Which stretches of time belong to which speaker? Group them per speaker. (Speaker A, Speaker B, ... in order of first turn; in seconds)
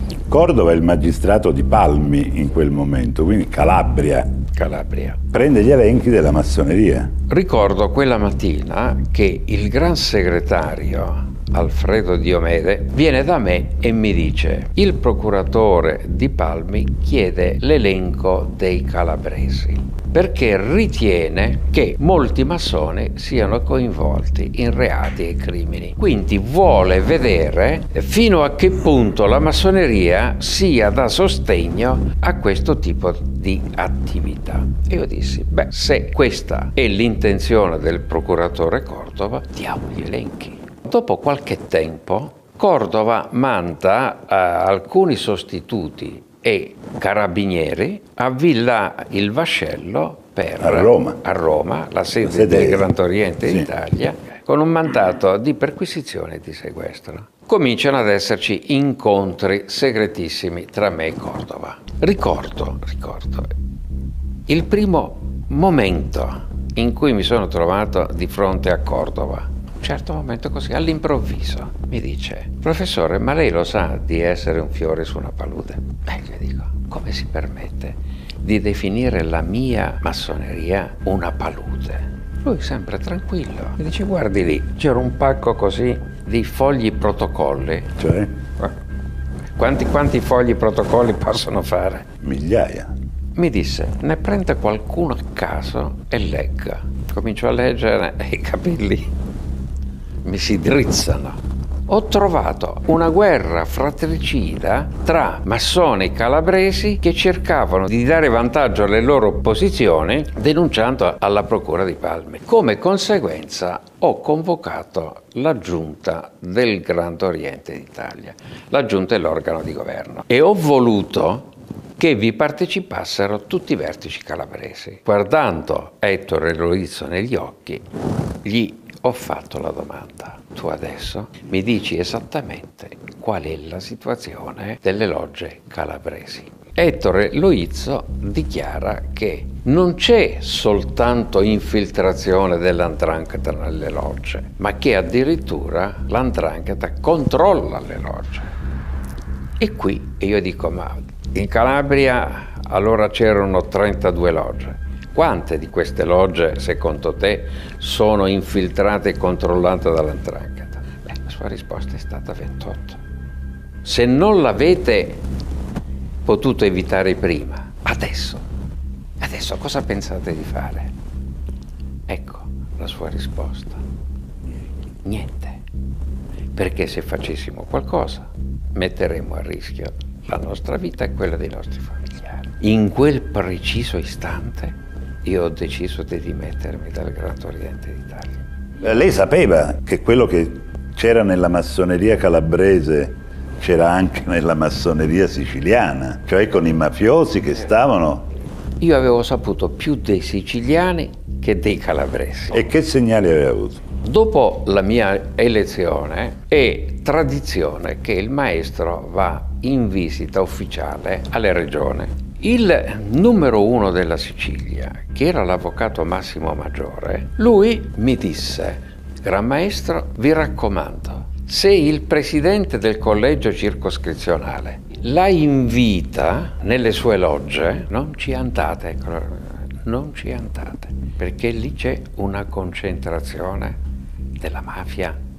Speaker A: 0.3-4.4, 5.3-7.1, 50.6-51.2, 52.2-52.9, 88.0-88.3, 92.2-92.9, 188.8-198.2, 202.5-203.8
Speaker B: 4.5-5.2, 7.3-63.5, 64.5-87.9, 89.6-92.1, 93.3-99.1, 100.2-127.8, 128.4-148.5, 149.6-163.0, 163.8-165.2, 166.2-168.4, 169.2-170.9, 172.1-173.8, 175.0-175.6, 176.5-188.4, 198.8-202.7, 204.0-233.8, 234.4-235.2